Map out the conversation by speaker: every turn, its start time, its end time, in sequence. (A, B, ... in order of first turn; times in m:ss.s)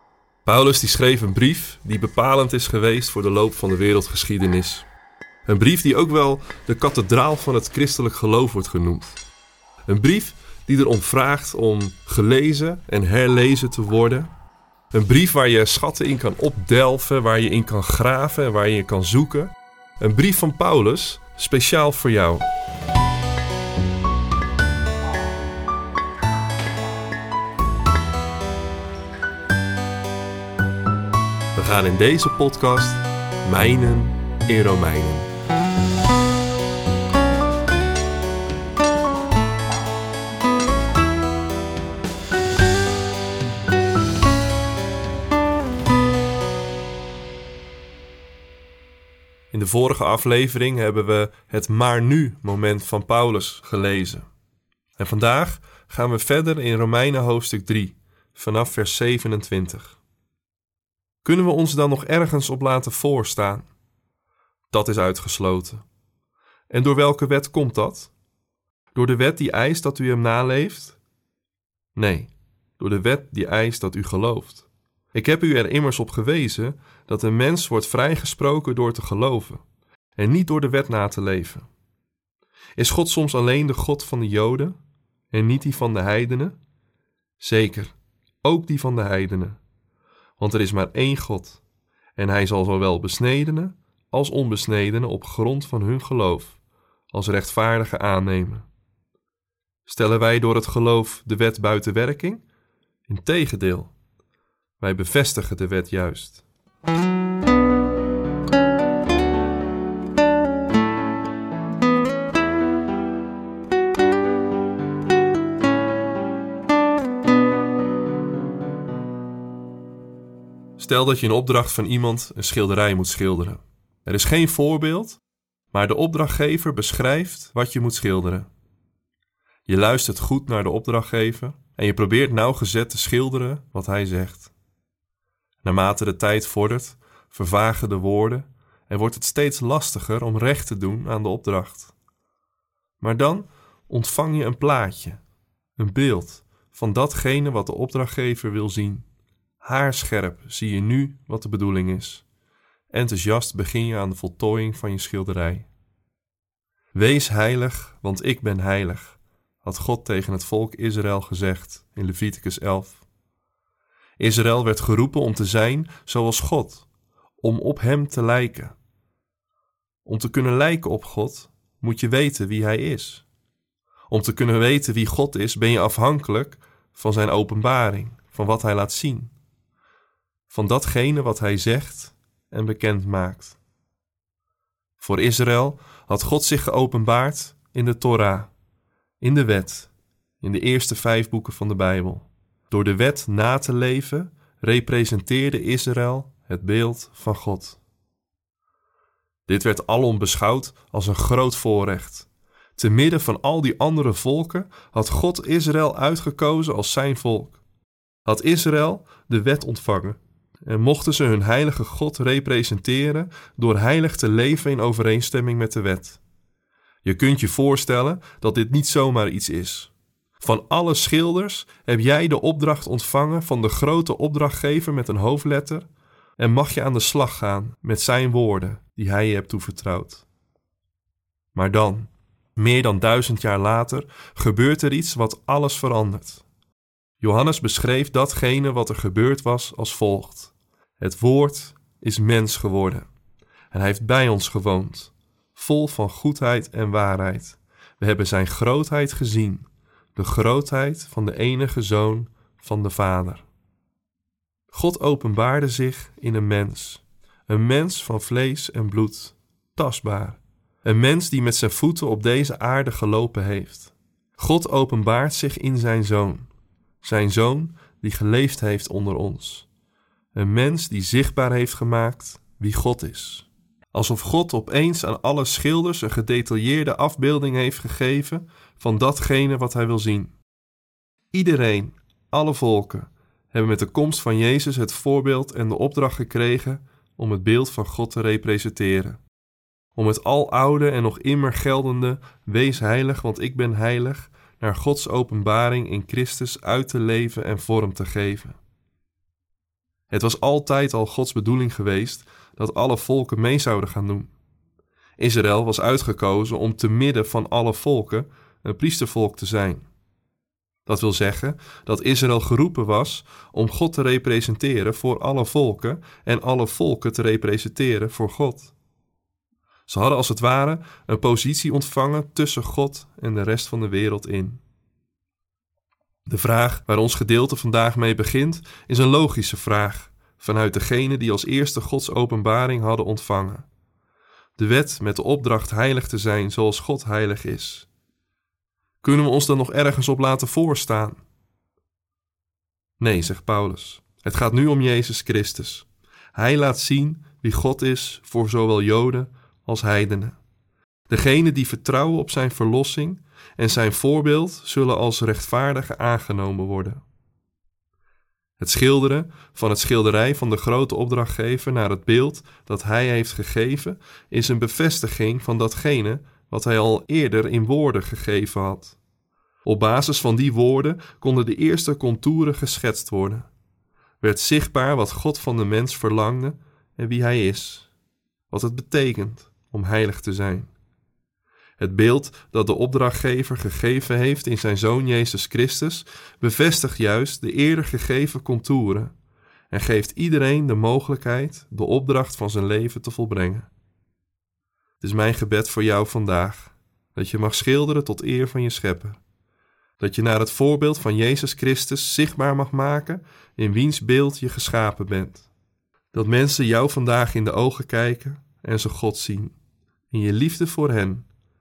0:00.4-0:04.9 A
0:05.5-0:09.2 A
0:09.9-0:14.3 A
0:14.9-0:22.5 A
0:31.6-0:35.3 A
0:49.5-0:54.3 A
0:55.0-1:00.0 A
1:01.2-1:03.7 A
1:04.7-1:05.8 A
1:06.7-1:08.1 A
1:09.0-1:11.0 A
1:12.0-1:19.6 A
1:20.2-1:21.7 A
1:22.8-1:24.8 A
1:25.3-1:26.6 A
1:27.4-1:29.6 A
1:30.4-1:31.6 A
1:32.2-1:36.6 A
1:37.1-1:38.7 A
1:39.9-1:42.4 A
1:43.1-1:43.9 A
1:44.8-1:46.4 A
2:00.8-2:05.2 A
2:05.7-2:08.5 A
2:09.7-2:14.5 A
2:15.6-2:21.9 A
2:23.0-2:25.2 A
2:25.8-2:29.1 A
2:29.6-2:32.2 A
2:32.9-2:35.7 A
2:36.9-2:43.0 A
2:44.2-2:46.9 A
2:47.4-2:48.8 A
2:50.0-2:53.3 A
2:54.1-2:59.3 A
3:00.5-3:03.6 A
3:05.0-3:08.5 A
3:09.2-3:17.8 A
3:19.5-3:27.6 A
3:28.2-3:36.2 A
3:37.0-3:50.2 A
3:51.5-3:56.4 A
3:57.2-4:03.1 A
4:03.7-4:13.5 A
4:14.7-4:26.5 A
4:27.0-4:29.7 A
4:30.3-4:40.3 A
4:41.3-4:49.2 A
4:50.0-4:58.6 A
5:00.1-5:04.3 A
5:05.2-5:09.9 A
5:10.9-5:18.7 A
5:19.9-5:24.6 A
5:26.3-5:33.7 A
5:34.6-5:37.9 A
5:39.0-5:41.2 A
5:43.0-5:50.4 A
5:51.1-5:57.0 A
5:58.6-6:09.0 A
6:09.6-6:13.5 A
6:14.2-6:17.9 A
6:18.5-6:20.7 A
6:21.8-6:29.2 A
6:29.7-6:33.7 A
6:35.0-6:39.2 A
6:40.0-6:45.5 A
6:46.1-6:49.6 A
6:50.1-6:51.3 A